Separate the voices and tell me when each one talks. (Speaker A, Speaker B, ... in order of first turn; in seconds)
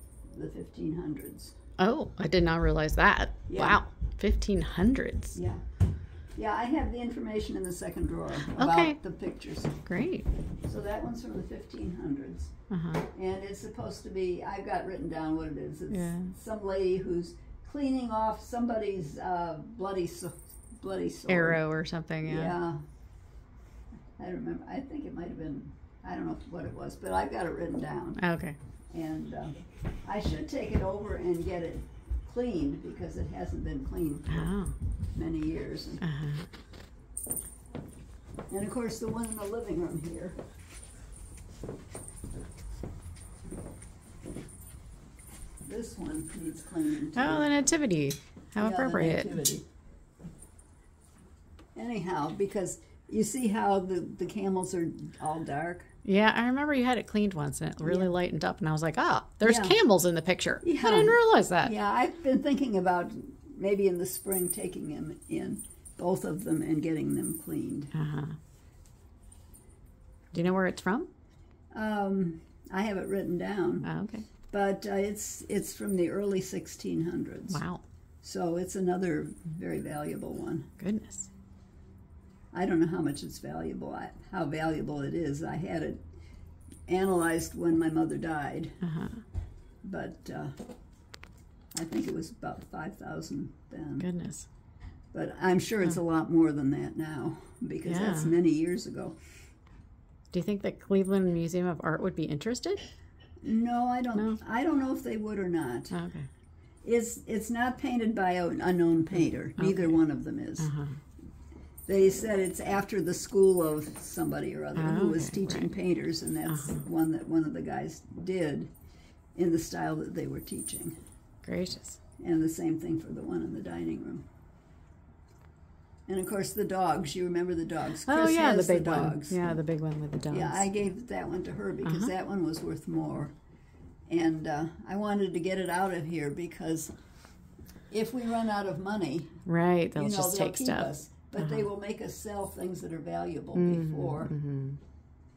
Speaker A: 0.3-1.6, 3.5-3.8, 5.3-5.6, 6.4-9.8, 10.6-12.5, 13.1-21.6, 22.2-22.8, 24.2-28.2, 28.9-34.6, 35.1-36.0, 38.5-40.4, 45.6-47.6, 48.6-49.6, 51.8-55.9, 57.8-58.1, 59.4-59.8, 60.6-67.9, 71.7-73.9, 74.5-77.6, 78.2-80.7, 82.5-86.0, 86.9-88.8, 89.8-90.5, 91.7-94.1, 95.1-99.2, 103.4-106.0, 106.8-110.7, 111.9-118.7, 119.4-121.0, 122.2-124.3, 126.1-129.4, 130.3-133.3, 134.1-136.9, 137.9-139.4, 140.0-144.3
Speaker B: 1.8-5.4, 8.5-9.0, 9.9-10.3, 12.7-13.1, 15.9-16.3, 21.3-22.6, 28.2-28.6, 34.3-34.8, 36.0-36.5, 47.2-49.3, 56.0-61.7, 67.9-68.4, 70.3-71.1, 73.8-74.3, 77.5-77.8, 80.8-81.3, 88.8-89.2, 94.0-94.5, 97.8-98.3, 100.3-102.8, 104.1-104.4, 105.9-106.3, 109.6-110.0, 110.6-111.0, 114.8-115.7, 116.5-116.8, 121.4-122.0, 128.1-130.6, 131.8-132.1, 139.5-141.6, 143.6-144.8